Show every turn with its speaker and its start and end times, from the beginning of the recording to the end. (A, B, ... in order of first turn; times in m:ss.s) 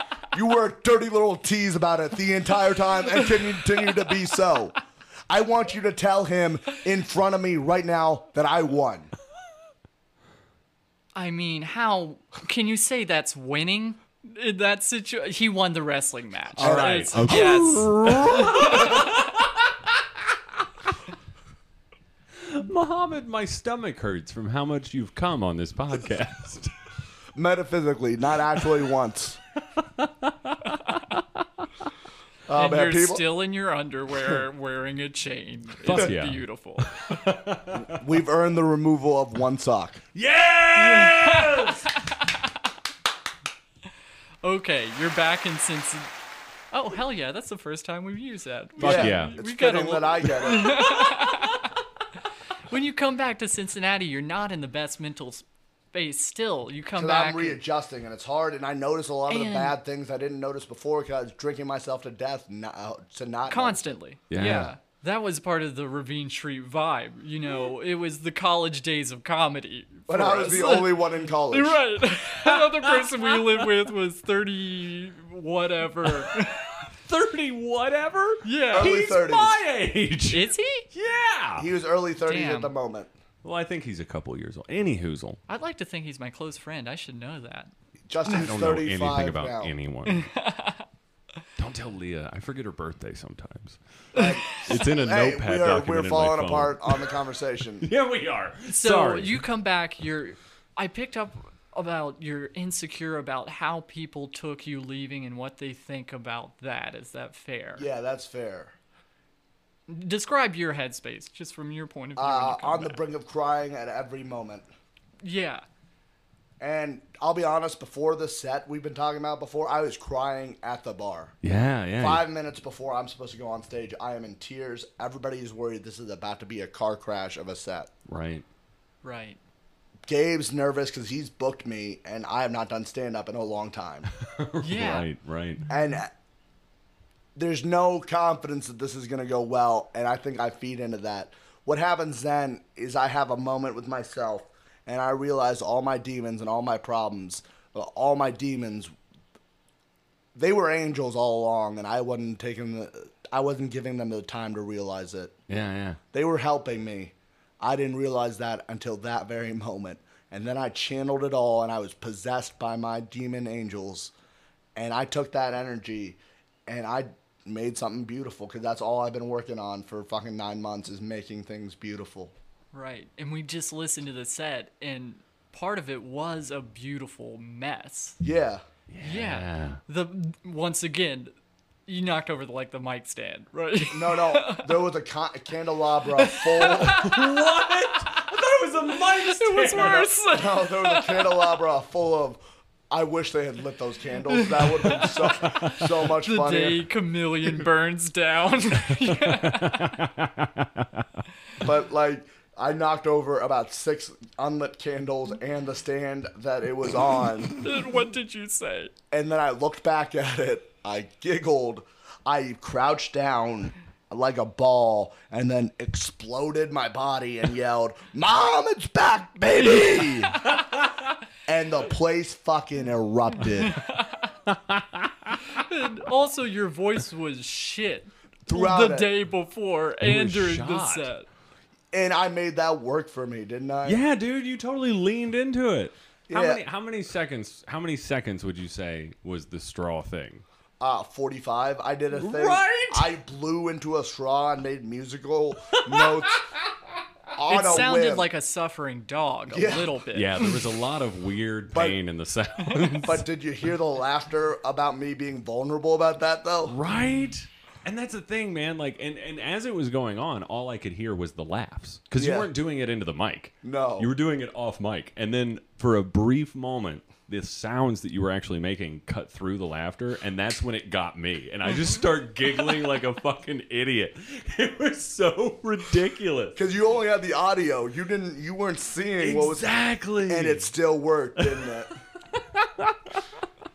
0:00.3-0:04.8 A
0:05.3-0:09.1 A
0:11.2-0:19.2 B
0:16.6-0:19.6 C
0:16.6-0:19.0 A
0:22.4-0:26.7 C
0:27.4-0:29.4 A
0:29.8-0:30.6 C
0:32.5-0:33.2 A
0:32.5-0:37.0 B
0:35.8-0:38.0 C
0:37.8-0:40.0 A
0:40.1-0:41.9 C
0:40.8-0:42.4 B
0:44.4-0:46.1 B
0:46.7-0:51.7 B
0:48.8-0:49.4 C
0:48.8-0:51.1 A
0:52.7-0:57.6 B
0:57.0-1:03.8 A
0:59.3-0:59.8 B
1:03.5-1:16.7 B
1:04.3-1:04.7 C
1:10.1-1:11.8 A
1:12.5-1:13.6 C
1:16.2-1:21.7 C
1:18.4-1:19.0 B
1:18.7-1:19.6 A
1:20.3-1:20.9 B
1:21.6-1:23.1 A
1:22.3-1:22.7 B
1:23.4-1:25.4 C
1:25.5-1:27.7 B
1:28.1-1:29.7 A
1:28.2-1:30.3 C
1:30.1-1:30.9 B
1:31.6-1:33.8 C
1:34.1-1:34.7 B
1:34.1-1:37.9 A
1:34.5-1:37.1 C
1:37.8-1:39.4 C
1:38.7-1:47.9 B
1:47.8-1:48.7 A
1:49.9-1:53.0 B
1:52.2-1:54.6 A
1:55.2-1:55.6 B
1:56.6-2:01.4 A
2:01.4-2:02.2 C
2:02.0-2:07.9 A
2:08.1-2:08.4 C
2:09.0-2:09.4 B
2:10.1-2:14.1 A
2:14.2-2:15.6 C
2:14.6-2:15.1 B
2:15.7-2:16.1 A
2:17.4-2:28.9 A
2:30.4-2:35.4 A
2:35.5-2:36.0 C
2:36.1-2:44.1 A
2:44.8-2:52.3 A
2:52.7-2:58.2 B
2:58.2-2:58.6 A
2:58.9-2:59.8 C
2:59.0-3:01.4 B
3:01.9-3:04.7 B
3:03.9-3:07.0 A
3:06.2-3:07.4 B
3:06.9-3:10.1 C
3:09.0-3:11.5 B
3:09.8-3:16.8 A
3:14.3-3:15.3 B
3:15.4-3:15.9 C
3:16.1-3:19.9 B
3:19.1-3:21.0 C
3:21.6-3:27.6 A
3:27.6-3:28.9 B
3:29.1-3:40.4 A
3:41.5-3:43.8 A
3:43.6-3:44.3 B
3:44.5-3:45.6 C
3:45.5-3:51.3 B
3:48.5-3:49.1 A
3:50.0-3:51.1 C
3:51.9-3:54.0 A
3:53.8-4:00.4 C
3:56.3-3:56.6 A
4:00.8-4:06.4 A
4:02.1-4:03.1 C
4:05.7-4:06.7 C
4:07.4-4:08.3 A
4:07.5-4:10.6 B
4:09.5-4:09.9 A
4:10.1-4:13.2 C
4:11.7-4:12.0 A
4:12.7-4:13.0 B
4:13.0-4:16.8 A
4:16.7-4:36.6 C
4:22.2-4:22.5 A
4:23.6-4:24.1 A
4:36.6-4:39.7 A
4:39.2-4:40.7 C
4:40.3-4:42.0 A
4:41.4-4:41.7 C
4:42.3-4:43.3 C